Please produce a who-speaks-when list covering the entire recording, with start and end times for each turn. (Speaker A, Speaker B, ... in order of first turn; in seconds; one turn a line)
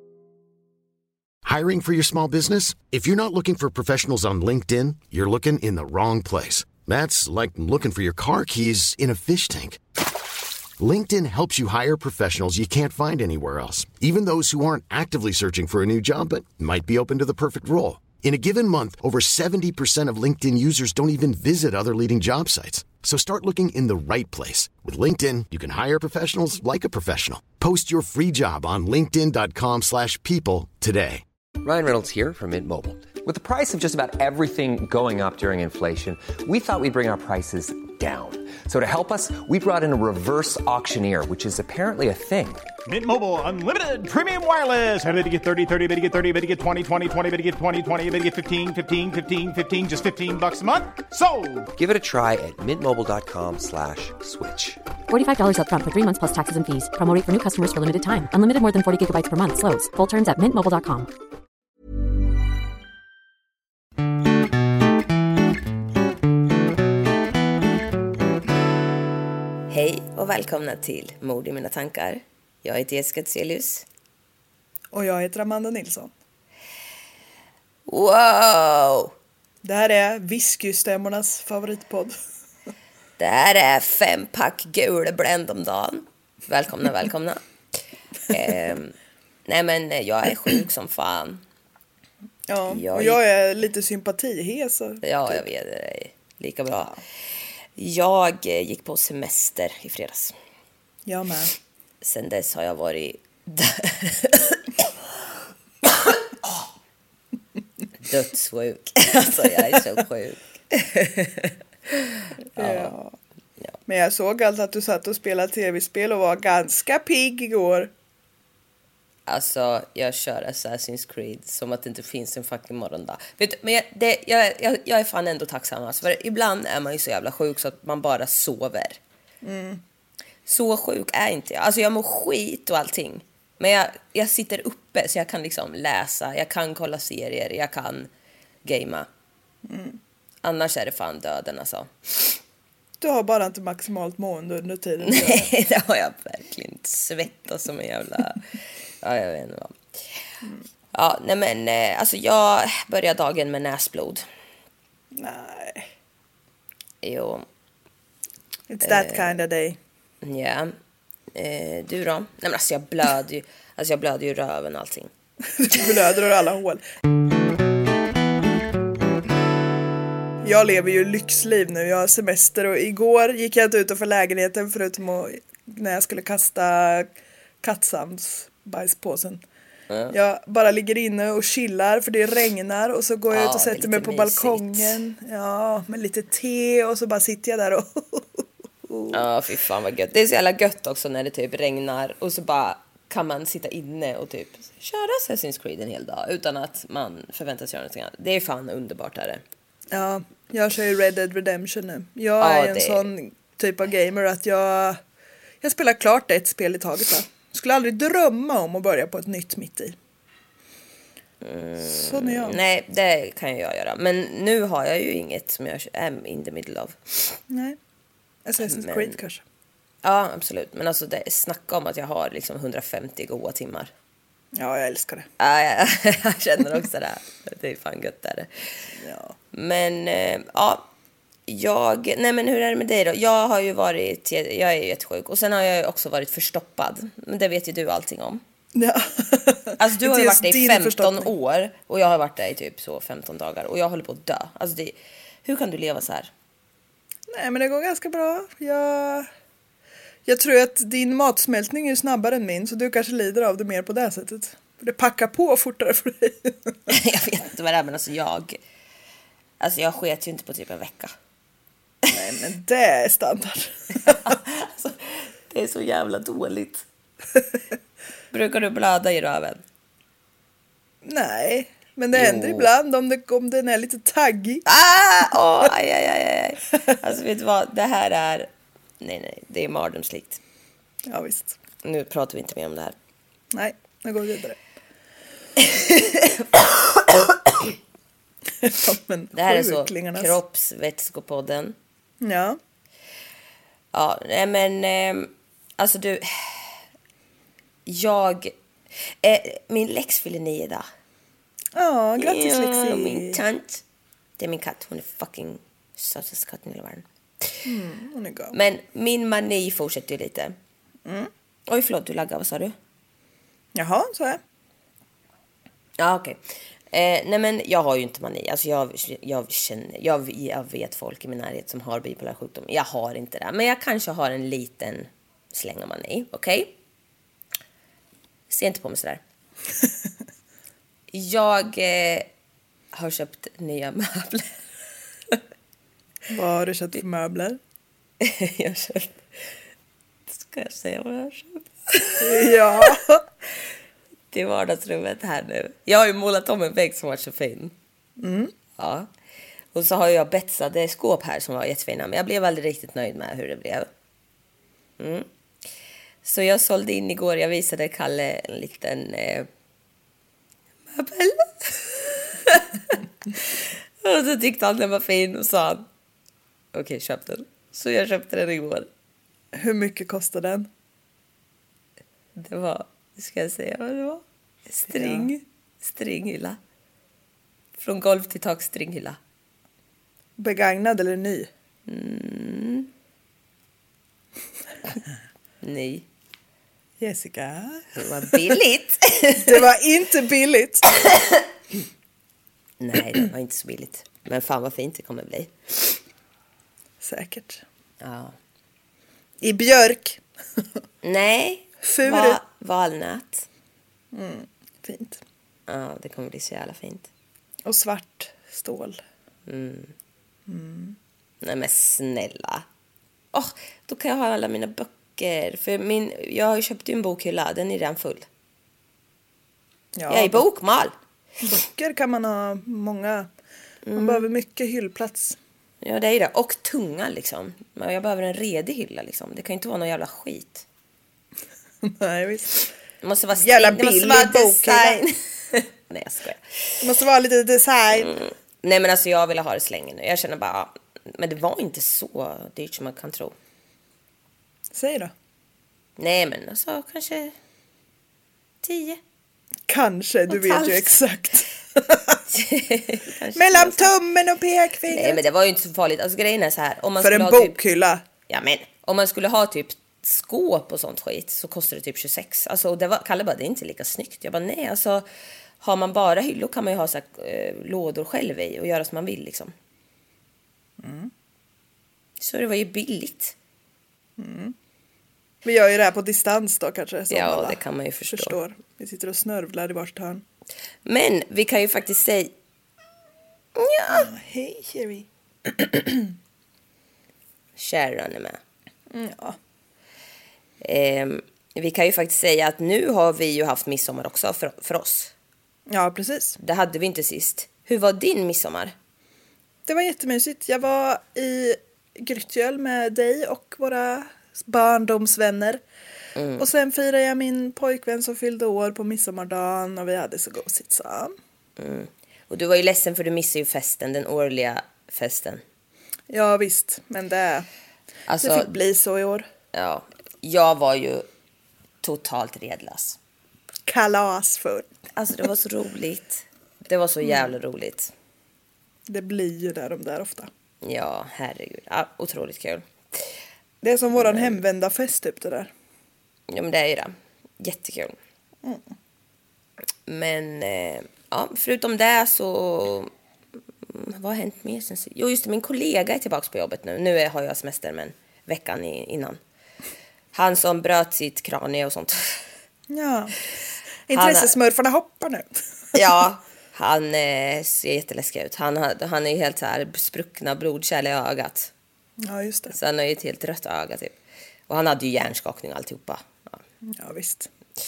Speaker A: 1.4-9.8
Speaker A: 10.8-31.2
Speaker B: 31.6-42.7
Speaker C: 42.9-51.7
Speaker B: 51.7-54.8
Speaker D: 55.1-61.1
Speaker E: 69.7-73.8
Speaker F: 74.9-76.1
Speaker E: 77.9-79.1
Speaker F: 79.6-82.2
Speaker E: 83.2-87.4
Speaker E: 88.3-89.0
Speaker E: 89.5-91.4
Speaker F: 92.5-95.4
Speaker E: 92.7-93.2
Speaker E: 95.0-97.0
Speaker E: 97.8-100.3
Speaker F: 101.0-101.5
Speaker E: 102.0-104.9
Speaker E: 108.0-112.9
Speaker F: 112.5-113.1
Speaker F: 113.9-117.9
Speaker E: 119.3-129.0
Speaker F: 129.4-129.8
Speaker E: 130.5-138.1
Speaker E: 138.6-139.1
Speaker F: 139.6-140.0
Speaker E: 140.4-142.4
Speaker F: 143.0-145.5
Speaker E: 145.0-148.5
Speaker E: 149.0-149.8
Speaker E: 150.9-154.2
Speaker F: 155.1-155.9
Speaker E: 157.0-157.4
Speaker F: 158.7-159.8
Speaker E: 158.8-159.4
Speaker E: 160.2-160.8
Speaker E: 161.3-165.1
Speaker F: 165.6-166.8
Speaker F: 170.4-179.4
Speaker F: 180.1-189.2
Speaker E: 183.3-185.0
Speaker E: 189.1-199.4
Speaker F: 199.9-205.0
Speaker E: 202.4-203.1
Speaker F: 205.6-209.9
Speaker E: 211.4-217.4
Speaker F: 211.8-212.6
Speaker F: 217.5-217.8
Speaker F: 218.4-219.4
Speaker E: 218.6-219.2
Speaker E: 220.0-223.9
Speaker F: 224.6-225.3
Speaker E: 225.4-228.9
Speaker F: 229.0-229.3
Speaker E: 229.5-230.8
Speaker E: 231.5-238.4
Speaker F: 238.8-241.3
Speaker E: 239.8-244.9
Speaker E: 245.5-246.3
Speaker F: 247.3-249.3
Speaker F: 250.2-256.8
Speaker E: 256.9-258.6
Speaker E: 259.6-261.1
Speaker F: 262.1-264.3
Speaker E: 264.1-266.9
Speaker E: 268.3-269.6
Speaker F: 271.0-274.6
Speaker E: 272.1-272.7
Speaker E: 274.7-278.5
Speaker E: 279.0-280.4
Speaker F: 281.1-281.6
Speaker E: 281.8-282.9
Speaker F: 283.5-284.6
Speaker E: 285.6-286.6
Speaker F: 288.6-290.4
Speaker E: 289.3-291.8
Speaker F: 292.2-292.6
Speaker E: 293.9-296.8
Speaker E: 297.9-298.5
Speaker E: 299.2-300.9
Speaker F: 301.8-303.4
Speaker E: 302.2-303.8
Speaker E: 304.4-307.6
Speaker F: 307.7-308.6
Speaker E: 308.5-310.6
Speaker F: 311.1-311.3
Speaker E: 311.7-312.7
Speaker F: 313.8-314.4
Speaker E: 316.0-316.4
Speaker E: 316.9-326.7
Speaker E: 328.5-329.2
Speaker E: 331.1-332.3
Speaker E: 332.9-334.6
Speaker F: 336.3-337.6
Speaker E: 338.2-339.2
Speaker E: 340.3-342.2
Speaker F: 342.2-343.2
Speaker E: 344.3-347.7
Speaker F: 348.2-348.5
Speaker E: 348.8-349.1
Speaker E: 349.7-353.9
Speaker E: 355.0-355.3
Speaker E: 356.2-359.5
Speaker E: 360.9-363.0
Speaker E: 364.0-365.9
Speaker E: 366.7-368.9
Speaker F: 369.5-370.7
Speaker E: 372.4-376.6
Speaker F: 374.9-375.3
Speaker E: 377.8-379.2
Speaker F: 380.4-381.5
Speaker E: 381.9-382.9
Speaker E: 385.6-386.1
Speaker F: 387.0-387.9
Speaker E: 387.9-389.6
Speaker F: 389.4-390.9
Speaker E: 392.8-396.0
Speaker F: 397.0-397.6
Speaker E: 398.0-398.3
Speaker F: 399.4-400.6
Speaker E: 401.0-403.5
Speaker F: 401.8-402.4
Speaker F: 404.1-405.2
Speaker E: 405.7-407.1
Speaker F: 407.6-409.0
Speaker E: 409.5-409.9
Speaker F: 410.5-411.0
Speaker E: 411.4-412.6
Speaker E: 413.3-418.3
Speaker F: 420.0-420.5
Speaker E: 420.1-420.9
Speaker F: 421.4-423.3
Speaker E: 423.9-424.3
Speaker F: 424.0-425.4
Speaker E: 425.8-430.6
Speaker F: 431.8-432.7
Speaker E: 433.0-436.8
Speaker F: 433.4-435.0
Speaker F: 436.8-438.2
Speaker E: 437.9-443.4
Speaker F: 444.7-445.1
Speaker E: 446.0-447.3
Speaker E: 448.6-449.0
Speaker F: 449.7-452.2
Speaker E: 450.3-450.9
Speaker E: 452.3-453.9
Speaker F: 453.4-455.2
Speaker E: 454.9-457.6
Speaker F: 457.0-458.0
Speaker E: 458.3-465.1
Speaker E: 465.6-469.5
Speaker F: 470.8-471.1
Speaker E: 472.2-473.4
Speaker F: 474.2-474.6
Speaker F: 475.4-480.2
Speaker E: 477.1-478.4
Speaker E: 480.9-482.3
Speaker E: 483.6-484.1
Speaker F: 483.9-485.1
Speaker E: 487.6-488.4
Speaker F: 488.9-489.4
Speaker E: 490.6-495.1
Speaker F: 495.7-496.4
Speaker E: 496.4-498.8
Speaker F: 499.7-505.6
Speaker E: 506.2-506.5
Speaker F: 506.4-511.1
Speaker E: 511.6-515.4
Speaker F: 516.1-517.5
Speaker E: 518.1-518.5
Speaker F: 518.2-519.2
Speaker E: 519.5-521.1
Speaker E: 521.8-523.0
Speaker F: 523.7-524.7
Speaker E: 524.9-527.9
Speaker F: 528.9-530.3
Speaker E: 530.6-533.1
Speaker F: 533.6-535.5
Speaker E: 533.9-534.4
Speaker E: 536.3-538.0
Speaker E: 539.9-542.9
Speaker E: 543.7-549.2
Speaker E: 550.1-552.2
Speaker F: 552.7-553.1
Speaker F: 553.9-555.3
Speaker E: 553.9-554.3
Speaker E: 555.7-561.5
Speaker F: 562.0-562.5
Speaker E: 562.5-563.9
Speaker E: 564.5-566.4
Speaker F: 566.7-567.3